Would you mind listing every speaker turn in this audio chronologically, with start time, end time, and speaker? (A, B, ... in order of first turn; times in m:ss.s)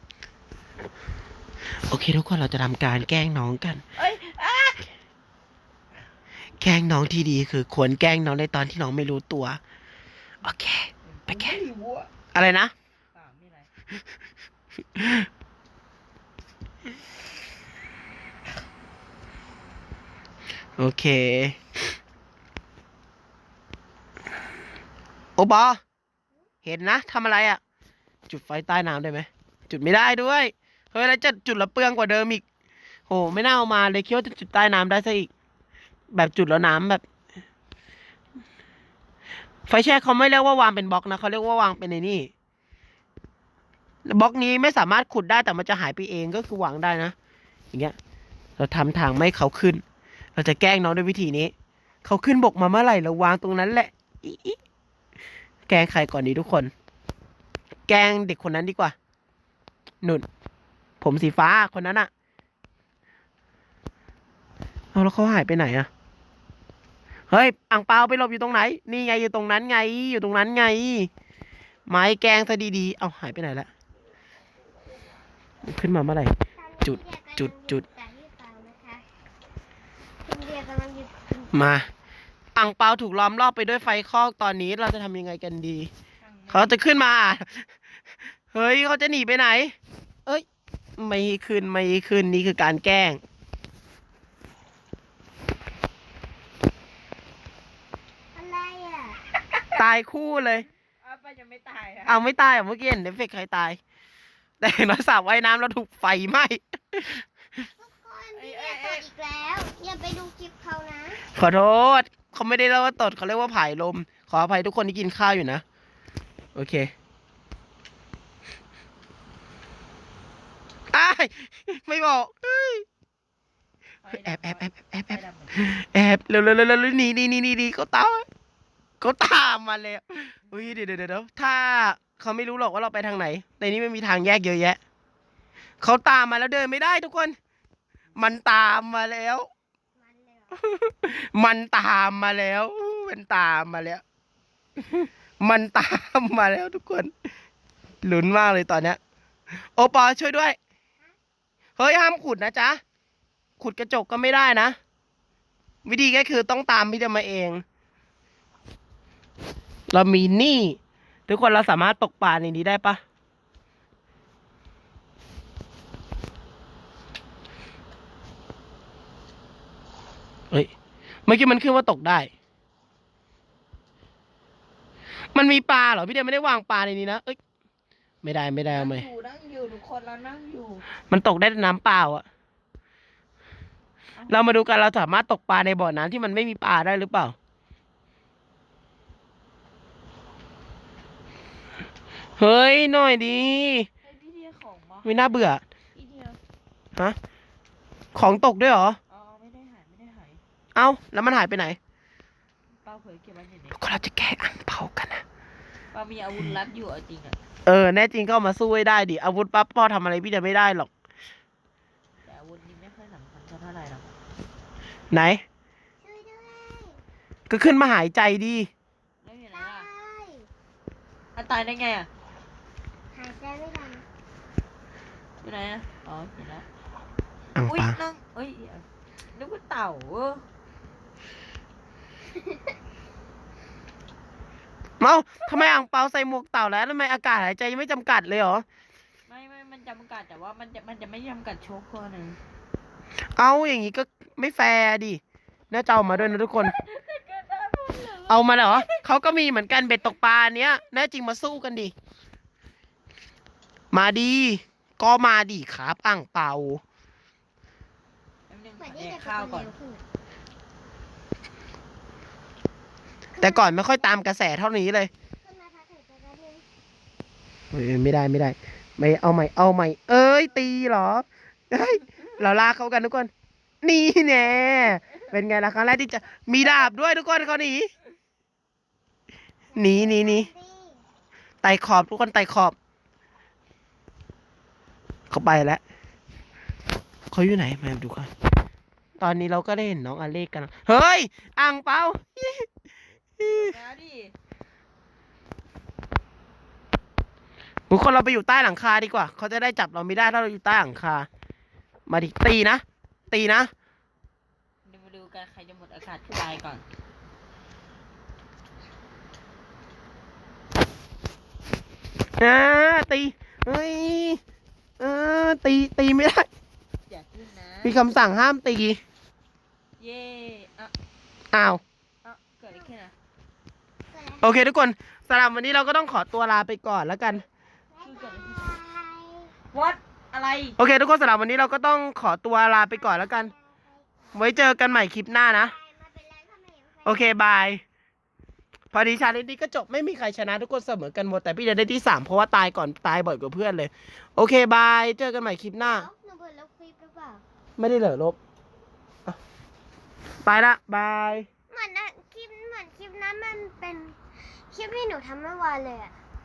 0:01.9-0:03.8 A
0:04.0-0:04.9 B
0:06.6-0:09.6 A
0:10.4-0:11.6 A
0:11.0-0:12.1 B
0:12.3-0:12.7 A
0:13.1-0:13.7 B
0:14.9-0:15.3 A
0:20.8-0:21.9 A
0:25.4-0:25.8 A
0:26.6-0:27.6 A
0:28.3-0:32.4 A
0:33.1-0:35.3 A
0:36.1-0:37.0 A
0:39.7-0:42.3 A
0:44.0-0:47.1 A
0:48.6-0:49.8 A
0:50.4-0:51.5 A
0:52.0-0:54.6 A
0:55.7-0:56.7 A
0:57.9-0:58.9 A
1:01.0-1:02.1 A
1:04.9-1:05.9 A
1:07.3-1:11.1 A
1:11.9-1:13.7 A
1:15.6-1:17.8 A
1:16.6-1:19.0 C
1:20.2-1:21.6 C
1:21.5-1:21.9 A
1:22.6-1:25.9 A
1:26.2-1:26.8 B
1:26.5-1:27.7 A
1:28.5-1:29.7 A
1:31.0-1:33.2 A
1:38.3-1:39.2 C
1:39.7-1:40.7 A
1:41.0-1:42.2 B
1:42.1-1:43.8 A
1:44.6-1:47.3 A
1:47.8-1:51.2 C
1:48.3-1:49.0 B
1:51.3-1:55.6 A
1:56.5-1:56.9 A
2:00.9-2:02.8 A
2:04.0-2:05.7 B
2:04.1-2:08.2 A
2:09.0-2:14.8 A
2:10.4-2:10.8 B
2:15.8-2:17.4 A
2:18.2-2:19.5 A
2:19.9-2:20.6 C
2:20.5-2:24.0 A
2:24.8-2:27.1 A
2:28.0-2:29.0 A
2:29.8-2:30.6 A
2:31.8-2:32.8 A
2:33.6-2:34.8 A
2:35.8-2:37.6 A
2:39.9-2:43.0 A
2:51.2-2:52.3 A
2:55.3-2:57.4 A
2:58.2-2:59.0 A
2:58.7-3:00.8 B
3:01.1-3:02.2 A
3:04.2-3:04.6 B
3:04.3-3:07.3 A
3:12.4-3:13.9 A
3:14.0-3:16.4 B
3:15.0-3:15.6 A
3:18.1-3:19.0 A
3:19.1-3:20.4 B
3:20.7-3:21.8 A
3:22.8-3:23.8 B
3:23.8-3:25.2 A
3:25.9-3:27.4 B
3:27.6-3:30.9 A
3:32.2-3:34.1 B
3:35.1-3:35.4 A
3:36.0-3:37.0 C
3:37.5-3:38.7 A
3:39.2-3:39.9 B
3:39.5-3:40.5 C
3:41.4-3:42.1 B
3:43.1-3:44.0 C
3:45.4-3:46.6 B
3:47.5-3:48.0 A
3:47.6-3:50.4 B
3:52.3-3:52.8 C
3:55.0-3:58.6 A
3:59.3-4:02.4 B
4:03.4-4:06.7 A
4:06.0-4:09.1 B
4:08.3-4:11.9 A
4:13.9-4:16.8 A
4:18.5-4:19.7 B
4:18.8-4:20.0 C
4:23.3-4:24.1 C
4:23.4-4:25.1 A
4:25.4-4:26.6 C
4:27.7-4:33.3 A
4:33.8-4:37.9 A
4:39.7-4:41.0 C
4:39.8-4:40.5 A
4:41.6-4:42.8 A
4:45.3-4:45.8 A
4:47.3-4:48.3 A
4:49.2-4:52.7 A
4:53.4-4:53.7 A
4:53.4-4:54.3 B
4:57.9-5:01.3 A
5:02.1-5:03.7 A
5:04.8-5:06.8 B
5:12.4-5:14.4 A
5:15.0-5:16.5 A
5:17.1-5:17.9 B
5:17.8-5:19.0 A
5:20.0-5:20.9 B
5:21.5-5:21.8 A
5:22.2-5:23.1 B
5:24.1-5:24.5 C
5:24.4-5:27.4 A
5:27.9-5:29.5 C
5:28.0-5:28.8 B
5:29.7-5:30.8 B
5:30.8-5:33.5 A
5:32.9-5:34.4 C
5:34.3-5:35.7 A
5:35.5-5:37.4 C
5:37.0-5:37.8 A
5:38.9-5:46.1 A
5:45.8-5:47.4 C
5:47.8-5:48.4 A
5:50.4-5:51.5 A
5:51.7-5:54.2 C
5:54.7-5:56.1 C